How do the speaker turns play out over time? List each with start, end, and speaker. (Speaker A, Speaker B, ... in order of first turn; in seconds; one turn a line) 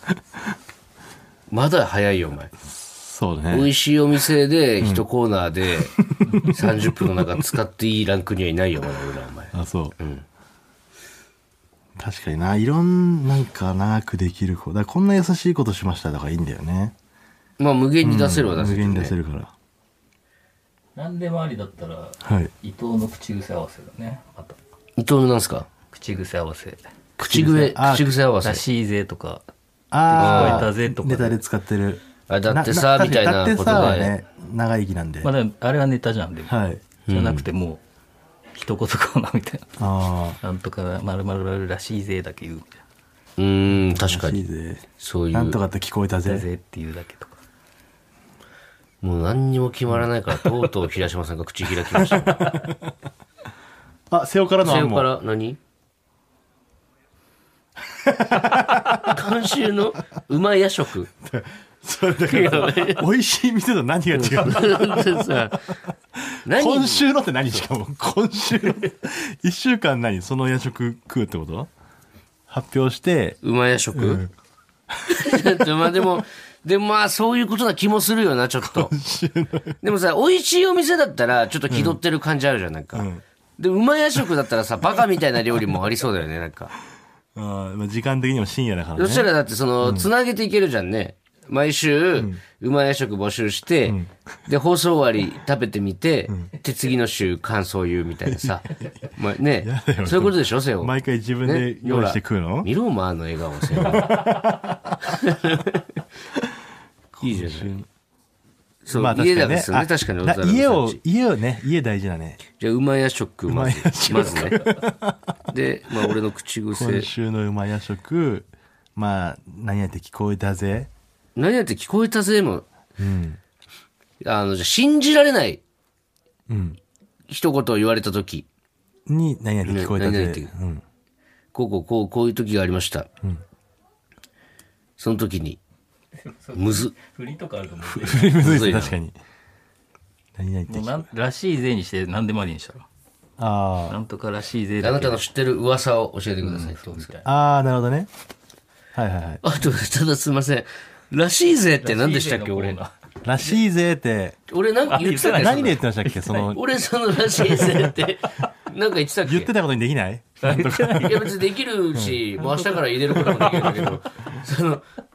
Speaker A: 1.5-2.5
Speaker B: 2.7-3.7
Speaker A: 3.5-10.2
Speaker B: 5.9-7.3
Speaker B: 9.5-9.9
Speaker B: 12.0-16.9
Speaker A: 17.6-19.1
Speaker B: 18.0-19.5
Speaker C: 20.9-24.6
Speaker B: 22.2-22.5
Speaker A: 25.0-25.7
Speaker C: 25.9-26.9
Speaker B: 27.2-28.1
Speaker A: 27.2-28.6
Speaker C: 28.4-29.4
Speaker B: 29.9-35.3
Speaker C: 30.1-31.4
Speaker A: 30.1-30.7
Speaker A: 32.3-34.1
Speaker C: 35.2-36.5
Speaker B: 36.5-36.8
Speaker A: 37.1-37.5
Speaker C: 37.1-37.8
Speaker C: 38.5-39.6
Speaker B: 39.8-40.4
Speaker C: 40.4-42.8
Speaker A: 43.4-44.4
Speaker B: 43.7-46.5
Speaker A: 45.0-45.6
Speaker C: 46.2-47.4
Speaker A: 49.0-52.4
Speaker B: 52.3-52.7
Speaker B: 54.1-55.1
Speaker A: 54.6-55.6
Speaker B: 57.9-59.3
Speaker A: 58.7-61.1
Speaker B: 61.2-65.4
Speaker A: 62.2-63.0
Speaker A: 64.1-65.7
Speaker B: 66.2-71.7
Speaker A: 66.5-67.6
Speaker B: 72.5-73.4
Speaker A: 73.4-74.2
Speaker B: 73.9-74.3
Speaker B: 74.9-76.1
Speaker A: 75.1-78.9
Speaker B: 78.6-79.8
Speaker A: 79.8-86.7
Speaker B: 81.7-82.0
Speaker B: 82.9-83.2
Speaker B: 87.3-89.3
Speaker A: 89.0-104.2
Speaker B: 89.8-90.1
Speaker B: 93.8-94.1
Speaker B: 98.2-98.9
Speaker B: 99.6-102.7
Speaker B: 103.7-104.9
Speaker A: 105.0-105.9
Speaker B: 107.2-107.9
Speaker A: 107.2-107.7
Speaker A: 108.8-111.0
Speaker B: 108.9-112.4
Speaker A: 112.5-114.7
Speaker B: 113.5-115.2
Speaker A: 115.5-117.1
Speaker B: 116.7-120.9
Speaker A: 121.3-122.7
Speaker B: 123.0-123.4
Speaker A: 124.2-125.6
Speaker B: 126.5-126.8
Speaker A: 127.3-128.5
Speaker B: 129.1-130.8
Speaker A: 129.7-130.5
Speaker A: 131.5-133.1
Speaker A: 135.0-135.6
Speaker C: 136.3-138.4
Speaker A: 136.5-136.9
Speaker B: 137.8-139.2
Speaker A: 138.4-138.9
Speaker B: 140.3-141.0
Speaker C: 140.7-142.9
Speaker B: 143.4-144.0
Speaker C: 143.9-145.2
Speaker A: 144.8-147.2
Speaker C: 146.4-147.3
Speaker B: 147.2-148.1
Speaker B: 148.9-149.4
Speaker A: 149.4-152.8
Speaker C: 151.8-152.9
Speaker B: 153.2-154.4
Speaker A: 154.5-155.8
Speaker C: 154.8-156.6
Speaker B: 155.3-156.6
Speaker A: 156.5-159.5
Speaker C: 157.5-157.8
Speaker B: 159.2-161.3
Speaker C: 160.4-161.2
Speaker A: 160.8-164.8
Speaker B: 161.9-162.2
Speaker C: 162.4-163.9